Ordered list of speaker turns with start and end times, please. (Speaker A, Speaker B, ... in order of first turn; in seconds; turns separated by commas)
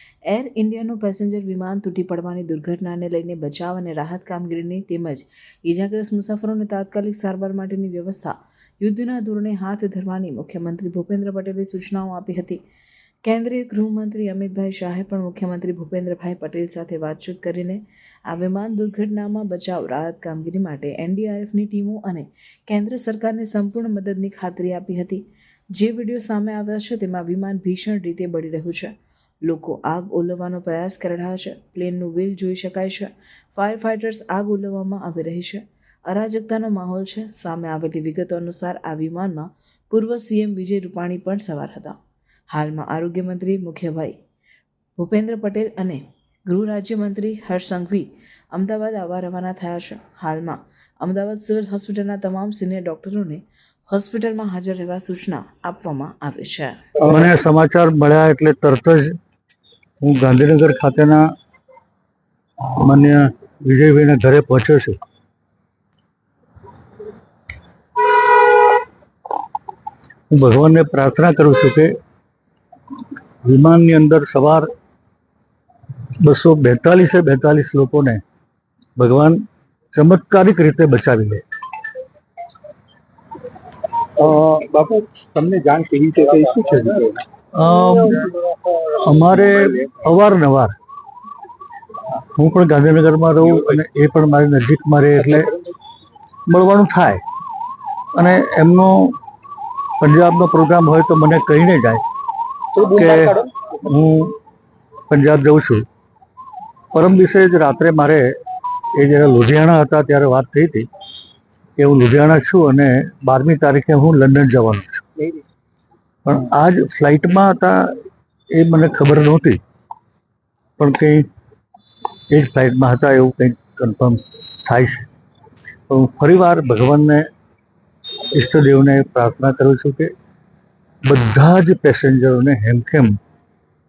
Speaker A: 0.2-12.6, Speaker A: 13.2-25.2, Speaker A: 25.8-28.9, Speaker A: 29.4-42.0, Speaker A: 42.5-44.1, Speaker A: 45.0-56.8, Speaker B: 57.0-59.1, Speaker B: 60.0-61.2, Speaker B: 62.7-65.0, Speaker B: 70.3-71.9, Speaker B: 73.4-74.7, Speaker B: 76.2-78.2, Speaker B: 79.0-79.4, Speaker B: 79.9-81.4, Speaker C: 84.2-87.2, Speaker B: 86.6-87.0, Speaker B: 87.5-88.3, Speaker C: 87.8-88.5, Speaker B: 88.9-90.7, Speaker B: 92.1-95.5, Speaker B: 96.5-97.2, Speaker B: 98.1-99.2, Speaker B: 100.0-102.0, Speaker B: 102.8-104.3, Speaker C: 102.8-103.5, Speaker B: 105.1-105.8, Speaker B: 106.9-108.3, Speaker B: 108.9-110.8, Speaker B: 111.8-115.0, Speaker B: 116.2-117.9, Speaker B: 118.5-119.6, Speaker B: 120.8-121.2, Speaker B: 122.3-125.1, Speaker B: 125.9-127.2, Speaker B: 128.3-130.1, Speaker B: 131.0-133.2